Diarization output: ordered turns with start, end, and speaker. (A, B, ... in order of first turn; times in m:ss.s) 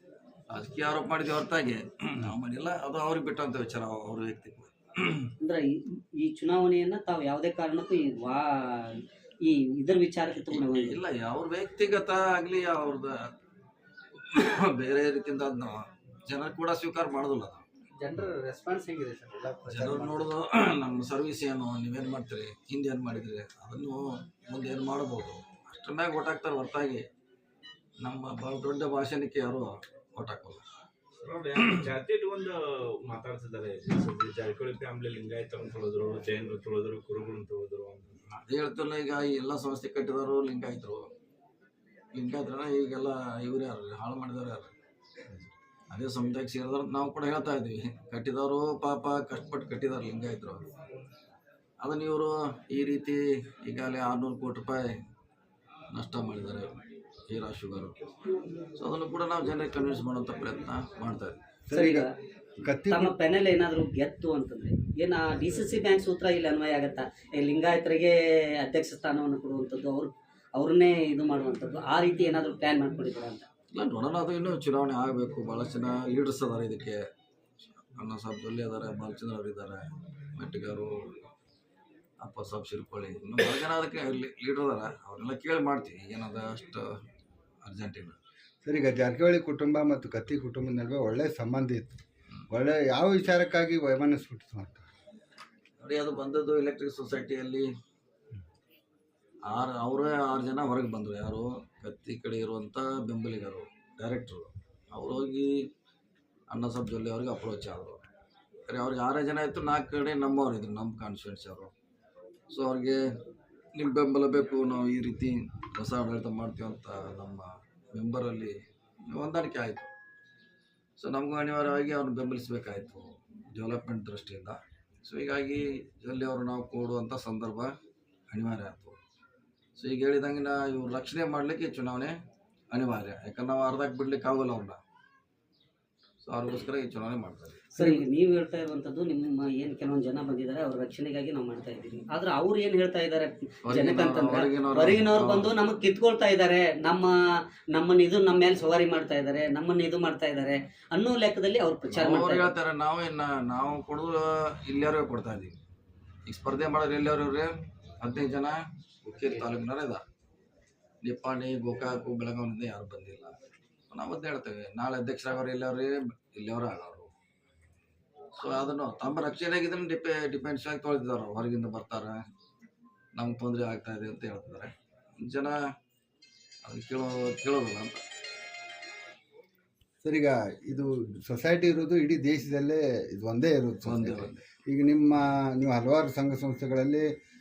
0:00.5-0:05.3 A
0:05.4-0:11.0 B
0:10.5-0:13.3 A
0:14.2-0:17.6 A
0:18.0-0:20.3 C
0:19.7-0:27.0 A
0:28.0-0:30.6 A
0:31.2-0:38.4 D
0:31.6-0:31.9 A
0:38.5-0:41.1 A
0:42.1-0:44.7 A
0:45.9-0:50.6 A
0:51.8-0:54.9 A
0:55.9-0:56.7 A
0:57.3-0:58.0 A
0:58.8-1:01.4 A
1:01.7-1:02.1 E
1:01.7-1:02.1 B
1:02.6-1:03.1 E
1:02.9-1:13.4 B
1:13.7-1:17.0 A
1:17.9-1:19.8 A
1:20.3-1:20.9 A
1:22.2-1:26.9 A
1:27.6-1:28.2 A
1:28.6-1:32.0 E
1:32.5-1:34.8 E
1:35.8-1:37.7 A
1:39.5-1:45.6 A
1:46.5-1:48.0 A
1:48.7-1:51.7 A
1:52.5-1:53.0 A
1:53.7-1:58.6 A
1:59.1-1:59.9 A
2:01.0-2:07.7 A
2:08.3-2:09.0 A
2:09.8-2:12.1 A
2:12.7-2:14.8 A
2:16.2-2:18.0 A
2:17.7-2:27.1 B
2:23.6-2:25.5 A
2:27.7-2:32.5 B
2:31.9-2:35.6 A
2:36.2-2:37.5 A
2:38.0-2:40.0 A
2:41.0-2:43.3 A
2:43.9-2:47.1 A
2:48.4-2:52.2 A
2:53.2-2:55.6 A
2:56.6-2:58.0 A
3:00.0-3:07.1 E
3:03.8-3:04.4 A